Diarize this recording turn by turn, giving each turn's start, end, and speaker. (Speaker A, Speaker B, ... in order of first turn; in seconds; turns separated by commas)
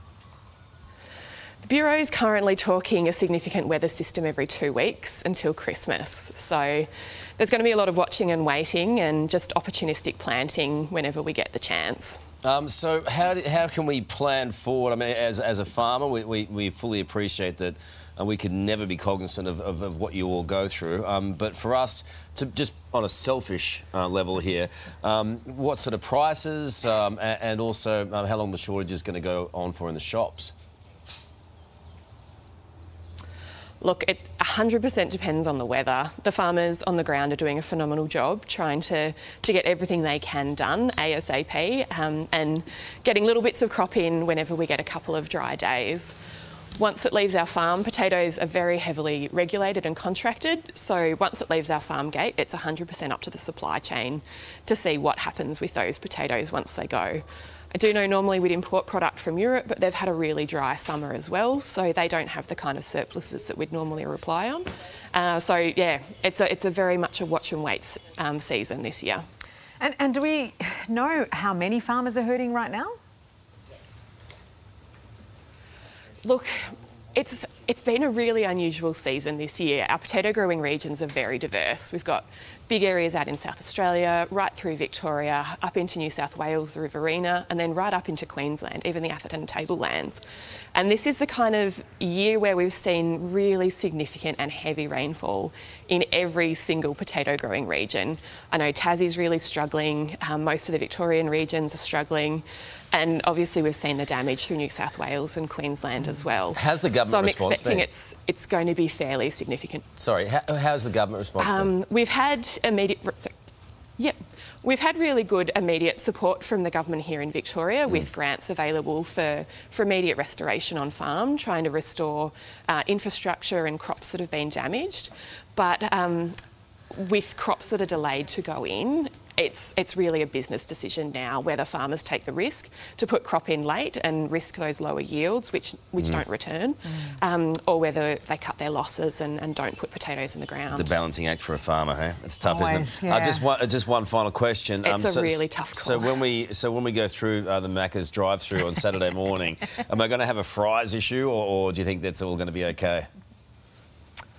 Speaker A: 1.6-12.2, Speaker B: 12.4-30.5, Speaker A: 33.8-46.1, Speaker A: 46.8-69.2, Speaker C: 69.8-73.0, Speaker A: 76.2-90.2, Speaker A: 90.7-109.9, Speaker B: 106.5-107.9, Speaker B: 110.0-111.7, Speaker A: 111.4-113.3, Speaker A: 114.0-126.4, Speaker A: 126.9-141.0, Speaker B: 140.7-153.1, Speaker C: 142.4-143.5, Speaker A: 144.8-146.2